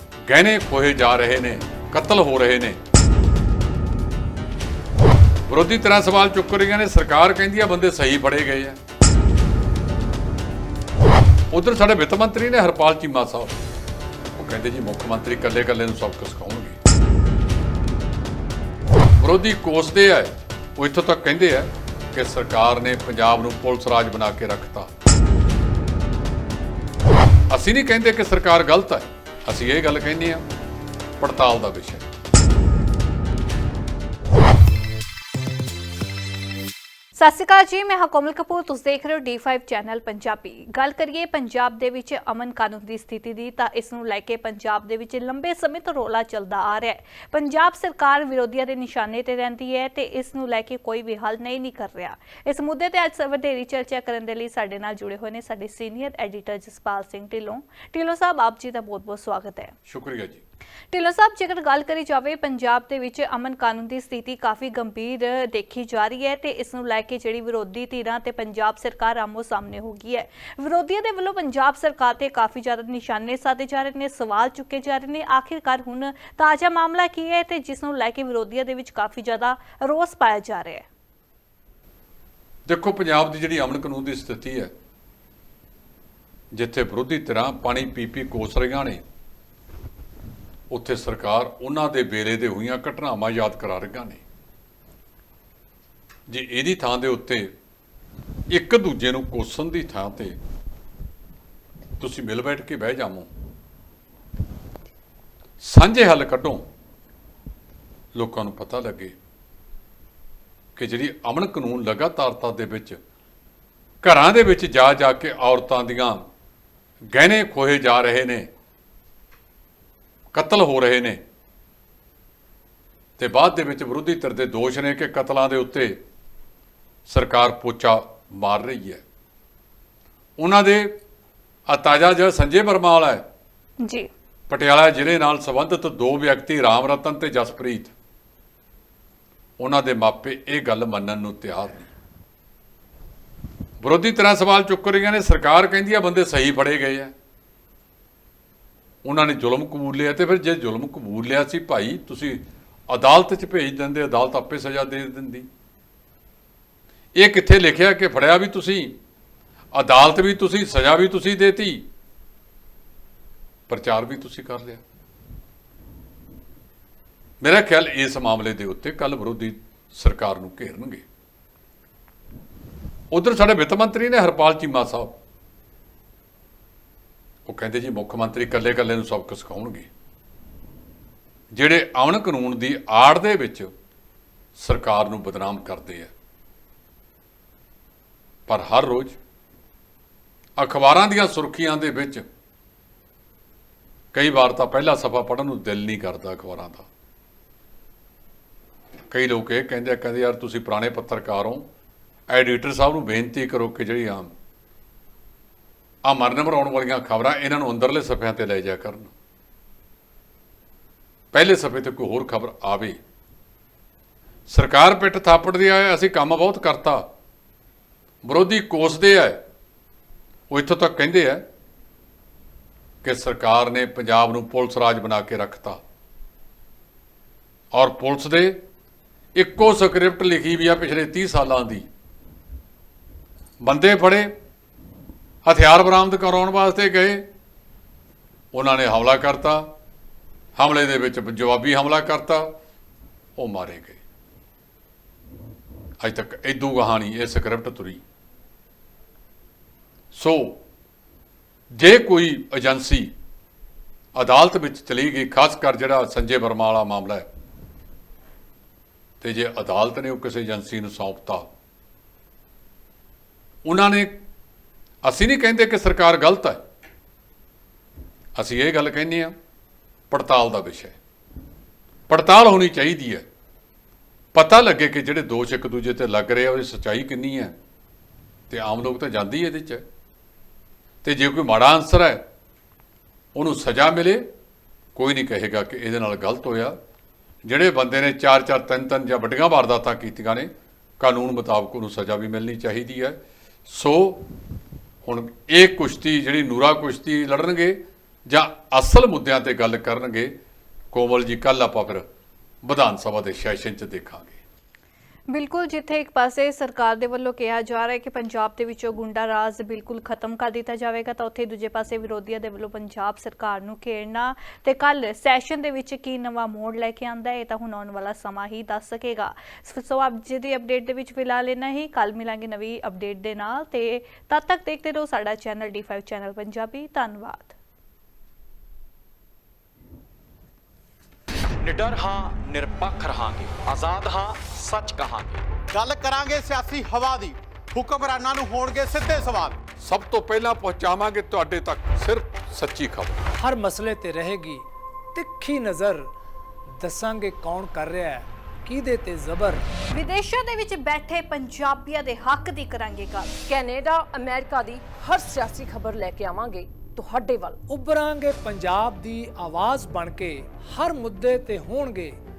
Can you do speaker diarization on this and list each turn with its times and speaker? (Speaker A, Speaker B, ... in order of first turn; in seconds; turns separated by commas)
Speaker A: 0.3-2.8, Speaker A: 5.5-8.8, Speaker A: 11.5-13.6, Speaker A: 14.3-16.8, Speaker A: 19.2-24.9, Speaker A: 27.5-30.4, Speaker A: 31.2-32.0, Speaker B: 37.1-59.7, Speaker A: 59.9-60.4, Speaker B: 60.9-80.8, Speaker A: 82.7-84.7, Speaker A: 86.5-89.0, Speaker A: 90.7-94.2, Speaker A: 96.3-97.5, Speaker A: 98.5-100.4, Speaker A: 102.0-103.3, Speaker A: 105.6-106.6, Speaker A: 108.1-109.1, Speaker A: 110.8-113.0, Speaker A: 114.0-116.2, Speaker A: 117.1-118.5, Speaker A: 120.3-121.2, Speaker A: 123.2-126.0, Speaker A: 127.1-129.0, Speaker A: 130.4-130.9, Speaker A: 131.7-133.2, Speaker B: 133.8-134.1, Speaker A: 134.5-137.9, Speaker A: 139.6-141.9, Speaker A: 143.8-147.1, Speaker A: 149.0-155.5, Speaker A: 157.2-158.9, Speaker A: 159.7-161.8, Speaker A: 163.7-164.8, Speaker A: 167.4-171.0, Speaker A: 173.1-175.2, Speaker A: 177.5-179.9, Speaker A: 181.5-183.7, Speaker A: 184.6-186.1, Speaker A: 188.5-189.2, Speaker A: 190.6-192.2, Speaker A: 194.1-196.9, Speaker A: 199.1-201.7, Speaker A: 202.3-204.3, Speaker A: 206.0-209.1, Speaker A: 211.3-213.0, Speaker A: 214.5-217.0, Speaker A: 218.2-219.4, Speaker A: 220.5-221.4, Speaker A: 223.0-225.8, Speaker A: 227.7-228.6, Speaker A: 229.3-231.8, Speaker A: 233.6-234.3, Speaker A: 235.4-237.2, Speaker A: 238.5-239.7, Speaker A: 240.6-242.5, Speaker A: 243.4-244.0, Speaker A: 246.0-248.0, Speaker A: 250.1-250.6, Speaker A: 251.7-253.1, Speaker A: 254.1-257.2, Speaker A: 259.2-261.5, Speaker A: 263.6-264.2, Speaker A: 265.0-266.6, Speaker A: 268.4-269.3, Speaker A: 270.1-270.9, Speaker A: 272.1-273.2, Speaker A: 274.3-277.5, Speaker A: 278.5-279.8, Speaker A: 281.0-282.2, Speaker A: 283.3-284.2, Speaker A: 284.9-286.7, Speaker A: 287.4-290.5, Speaker A: 291.0-293.2, Speaker A: 293.7-294.2, Speaker A: 295.1-300.3, Speaker A: 300.9-302.0, Speaker A: 302.6-304.4, Speaker B: 305.3-327.5, Speaker C: 331.6-335.4, Speaker D: 335.7-339.6, Speaker A: 339.8-343.2, Speaker E: 343.4-346.1, Speaker E: 346.8-349.6, Speaker B: 349.9-353.4, Speaker F: 353.5-357.6, Speaker E: 357.7-362.2